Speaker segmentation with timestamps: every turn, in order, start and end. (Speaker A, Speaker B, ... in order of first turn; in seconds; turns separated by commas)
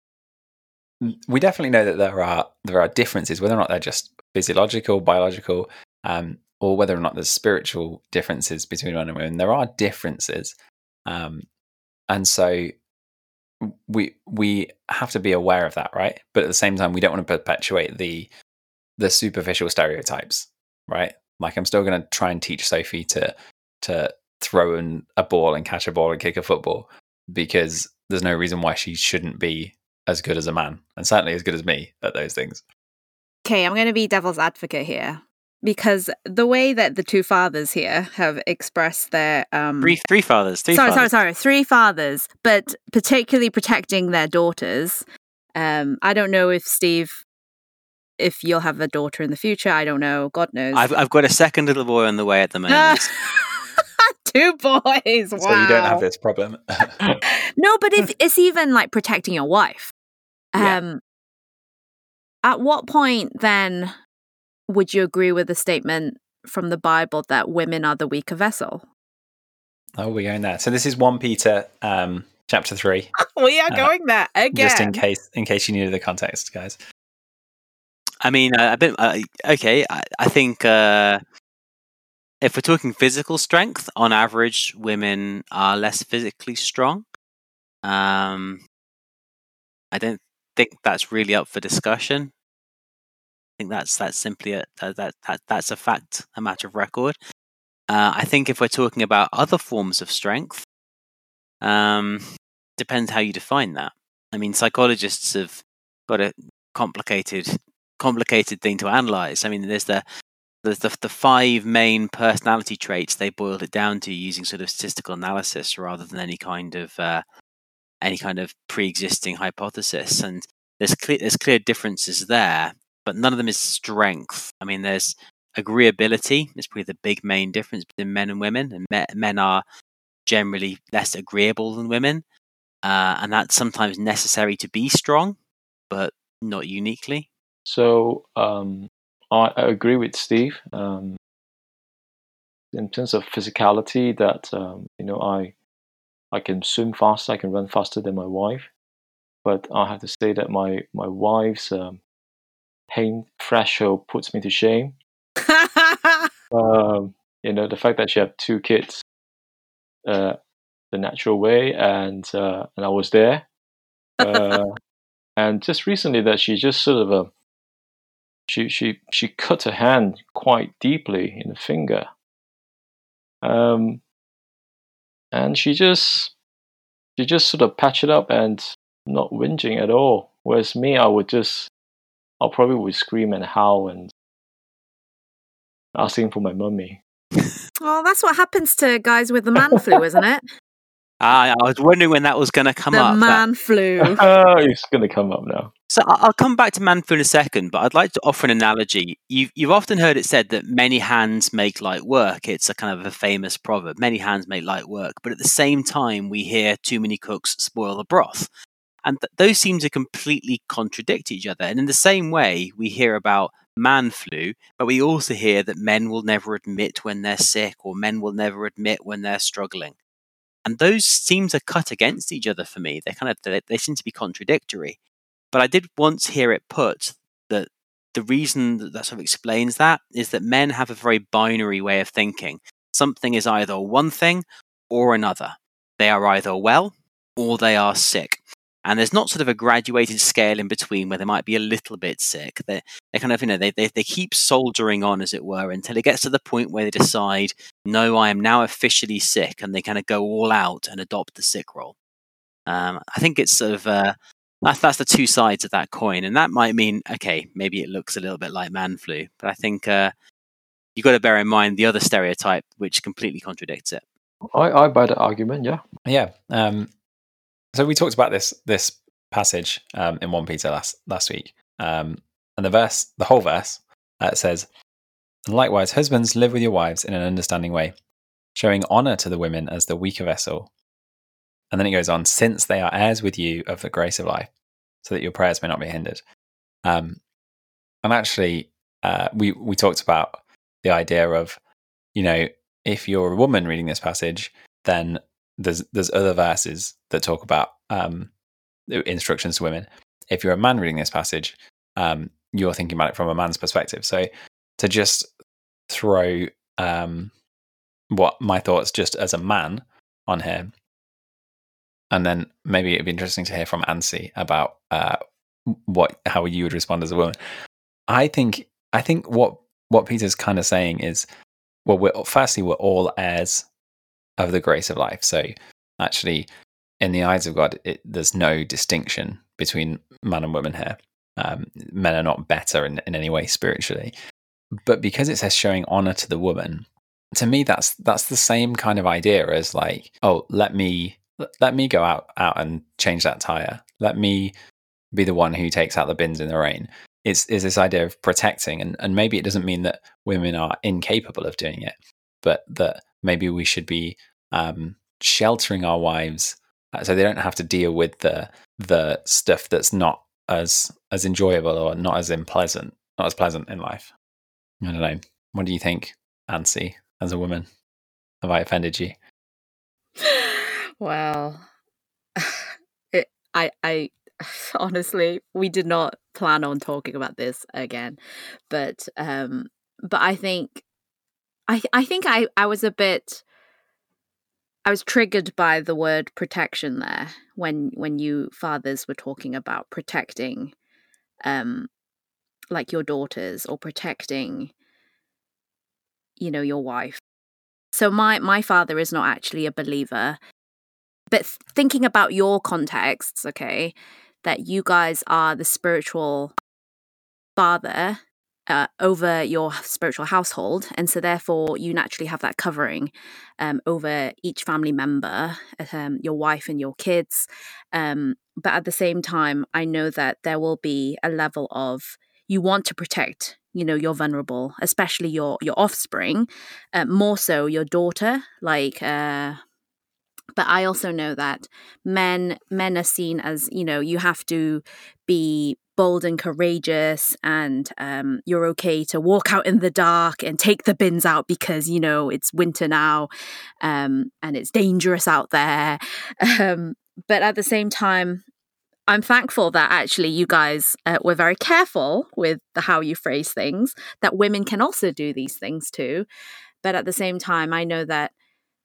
Speaker A: 1.0-10.6, Speaker A: 11.1-11.4, Speaker A: 12.1-12.7, Speaker A: 13.6-18.3, Speaker A: 19.0-32.6, Speaker B: 33.5-40.0, Speaker C: 39.8-41.1, Speaker B: 40.7-47.2, Speaker B: 48.2-50.9, Speaker C: 50.7-53.1, Speaker B: 52.7-56.0, Speaker A: 55.4-57.0, Speaker B: 57.3-59.9, Speaker B: 60.5-61.0, Speaker B: 62.4-63.9, Speaker B: 64.7-68.9, Speaker A: 70.0-73.1, Speaker B: 73.2-75.0, Speaker A: 74.5-76.8, Speaker C: 78.2-81.2, Speaker C: 82.4-87.1, Speaker C: 87.8-88.6, Speaker C: 89.9-92.3, Speaker C: 93.6-97.2, Speaker C: 97.9-100.7, Speaker C: 101.6-102.2, Speaker C: 102.8-110.0, Speaker C: 110.6-117.2, Speaker C: 118.0-129.6, Speaker C: 130.3-132.2, Speaker C: 132.8-135.4, Speaker C: 135.9-137.3, Speaker D: 137.7-141.2, Speaker D: 142.7-145.6, Speaker D: 146.3-148.7, Speaker D: 149.4-152.0, Speaker D: 152.9-154.9, Speaker B: 155.5-156.3, Speaker D: 156.5-159.0, Speaker D: 160.1-160.4, Speaker D: 160.9-163.5, Speaker D: 164.2-164.8, Speaker B: 164.2-164.6, Speaker D: 165.4-167.3, Speaker D: 168.5-172.1, Speaker D: 173.4-174.0, Speaker D: 175.3-176.3, Speaker D: 177.2-181.7, Speaker D: 182.4-184.1, Speaker D: 185.9-187.0, Speaker B: 187.8-190.4, Speaker D: 189.6-190.0, Speaker C: 191.2-193.4, Speaker B: 192.9-194.2, Speaker D: 194.0-195.7, Speaker C: 195.9-208.5, Speaker C: 209.1-220.0, Speaker C: 220.7-225.0, Speaker C: 225.5-252.0, Speaker C: 252.7-260.1, Speaker C: 261.0-264.0, Speaker D: 264.5-265.8, Speaker A: 266.1-266.9, Speaker A: 267.7-274.7, Speaker A: 275.5-277.9, Speaker A: 278.6-280.7, Speaker A: 281.7-284.5, Speaker A: 285.0-286.2, Speaker A: 286.9-287.2, Speaker A: 288.0-291.6, Speaker A: 292.1-298.3, Speaker A: 298.9-305.3, Speaker A: 305.9-307.3, Speaker A: 308.1-310.7, Speaker A: 312.1-317.4, Speaker A: 318.1-321.3, Speaker A: 321.9-323.7, Speaker A: 324.4-326.5, Speaker A: 327.0-334.1, Speaker A: 334.8-344.5, Speaker A: 345.1-364.1, Speaker A: 364.8-367.7, Speaker A: 368.4-369.2, Speaker B: 370.2-371.7, Speaker B: 372.4-378.2, Speaker B: 378.7-380.9, Speaker B: 381.7-383.4, Speaker B: 384.9-390.7, Speaker B: 391.4-391.9, Speaker B: 392.7-394.7, Speaker B: 396.4-397.2, Speaker B: 397.9-400.4, Speaker B: 401.3-406.6, Speaker B: 407.6-429.6, Speaker B: 430.6-443.3, Speaker B: 443.8-448.4, Speaker B: 449.1-456.3, Speaker B: 456.8-458.3